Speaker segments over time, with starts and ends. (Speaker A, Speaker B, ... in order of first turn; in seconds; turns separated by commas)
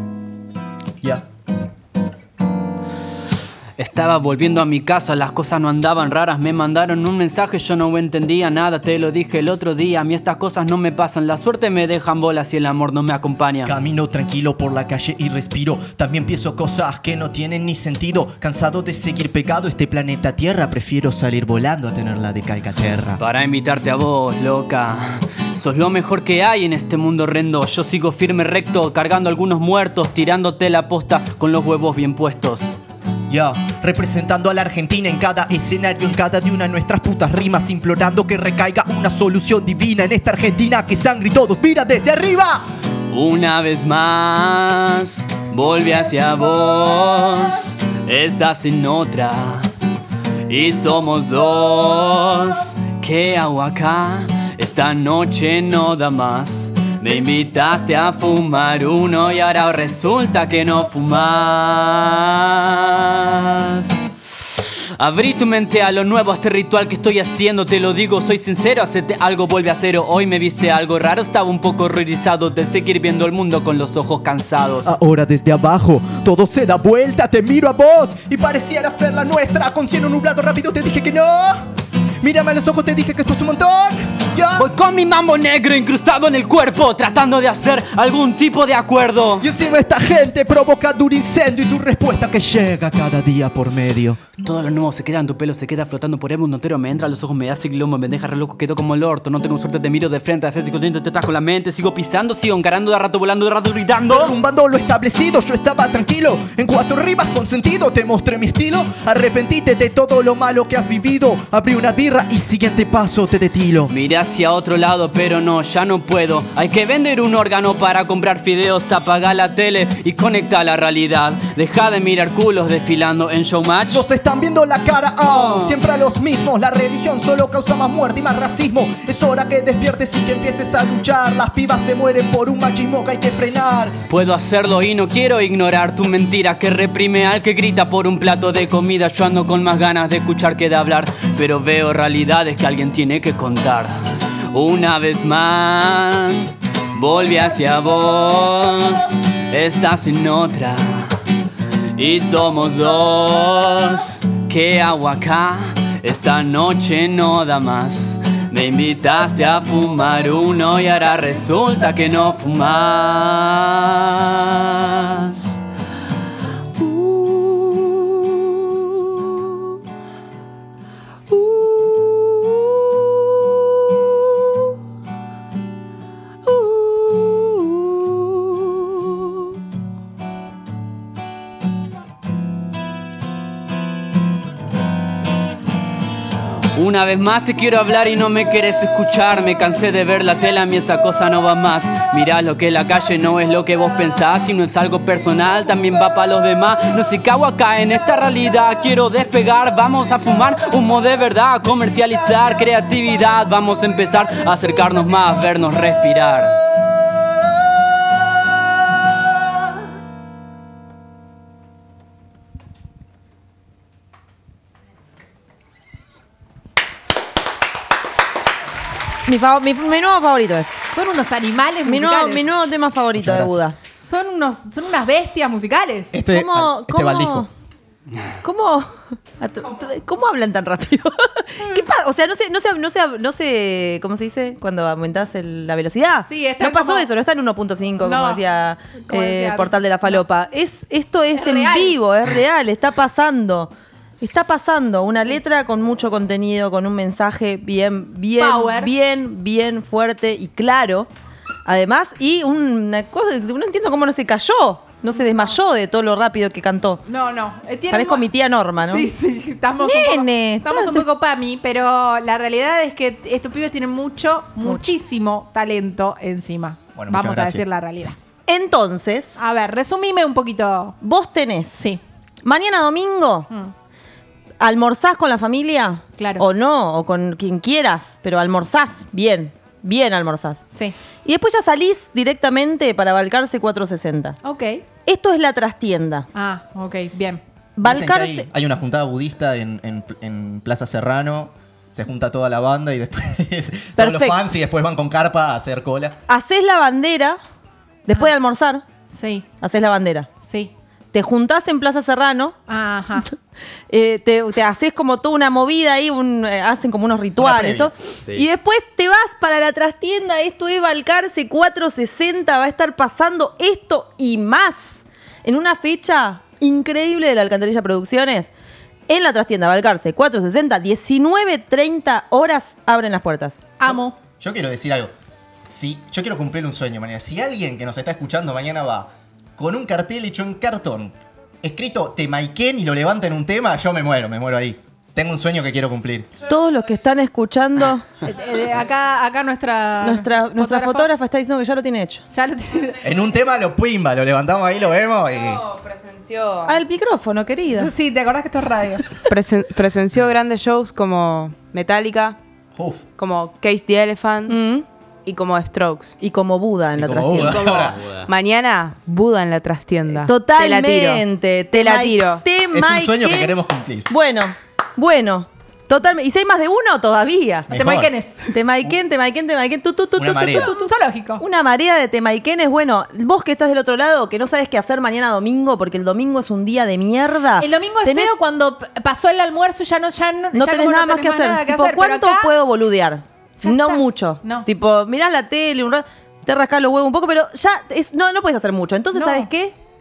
Speaker A: 3.8-13.7, Speaker B: 13.6-23.2, Speaker A: 23.2-32.7, Speaker B: 33.3-42.6, Speaker A: 43.1-49.7, Speaker A: 50.5-63.9, Speaker A: 64.6-74.9, Speaker B: 74.8-81.7, Speaker B: 82.2-84.7, Speaker A: 84.6-89.5, Speaker B: 89.4-94.2, Speaker A: 94.4-104.3, Speaker B: 104.1-113.9, Speaker A: 113.9-124.0, Speaker B: 123.9-134.0, Speaker A: 125.3-125.8, Speaker A: 134.1-151.1, Speaker A: 151.9-165.6, Speaker A: 186.7-206.6, Speaker C: 219.2-220.8, Speaker D: 220.9-222.5, Speaker C: 221.8-223.8, Speaker B: 223.1-223.6, Speaker D: 224.0-226.1, Speaker B: 226.1-227.5, Speaker C: 226.3-227.5, Speaker C: 228.4-251.1, Speaker D: 236.2-237.1, Speaker D: 238.0-238.4, Speaker D: 239.1-240.2, Speaker D: 241.3-241.9, Speaker D: 248.4-248.9, Speaker C: 251.7-257.0, Speaker D: 255.1-255.6, Speaker D: 257.1-258.2, Speaker C: 257.9-259.1, Speaker D: 258.8-268.2, Speaker C: 259.8-261.1, Speaker C: 264.6-264.9, Speaker B: 266.9-267.6, Speaker C: 268.5-269.4, Speaker D: 269.4-271.0, Speaker C: 271.0-271.8, Speaker D: 271.8-272.0, Speaker C: 272.4-273.5, Speaker C: 274.6-280.6, Speaker D: 276.2-276.4, Speaker C: 281.2-284.4, Speaker D: 284.4-284.8, Speaker C: 285.1-286.3, Speaker D: 286.3-287.4, Speaker C: 287.8-288.5, Speaker B: 287.8-296.2, Speaker C: 293.9-294.4, Speaker C: 296.3-297.4, Speaker C: 298.1-298.8, Speaker D: 299.1-299.5, Speaker C: 299.6-300.3, Speaker D: 300.4-300.7, Speaker C: 301.1-302.5, Speaker D: 302.7-303.3, Speaker C: 303.9-318.5, Speaker B: 307.4-307.9, Speaker C: 319.1-323.7, Speaker D: 323.8-324.1, Speaker B: 323.8-325.1, Speaker B: 325.7-336.3, Speaker C: 336.5-338.0, Speaker D: 338.2-341.1, Speaker C: 340.0-342.2, Speaker D: 342.3-343.0, Speaker B: 343.0-345.6, Speaker E: 345.0-346.8, Speaker C: 346.6-347.9, Speaker D: 347.7-349.2, Speaker E: 349.3-352.4, Speaker B: 352.8-353.0, Speaker E: 353.2-354.6, Speaker C: 354.5-354.9, Speaker E: 355.2-356.2, Speaker C: 356.2-357.6, Speaker B: 357.0-358.0, Speaker E: 357.4-362.4, Speaker A: 357.4-358.3, Speaker C: 360.2-363.6, Speaker B: 362.7-364.1, Speaker C: 364.1-367.7, Speaker B: 367.7-368.1, Speaker D: 367.7-368.5, Speaker C: 368.5-378.3, Speaker B: 370.2-370.7, Speaker D: 370.5-371.4, Speaker D: 377.6-382.5, Speaker C: 380.5-389.7, Speaker D: 383.6-384.7, Speaker D: 389.1-389.5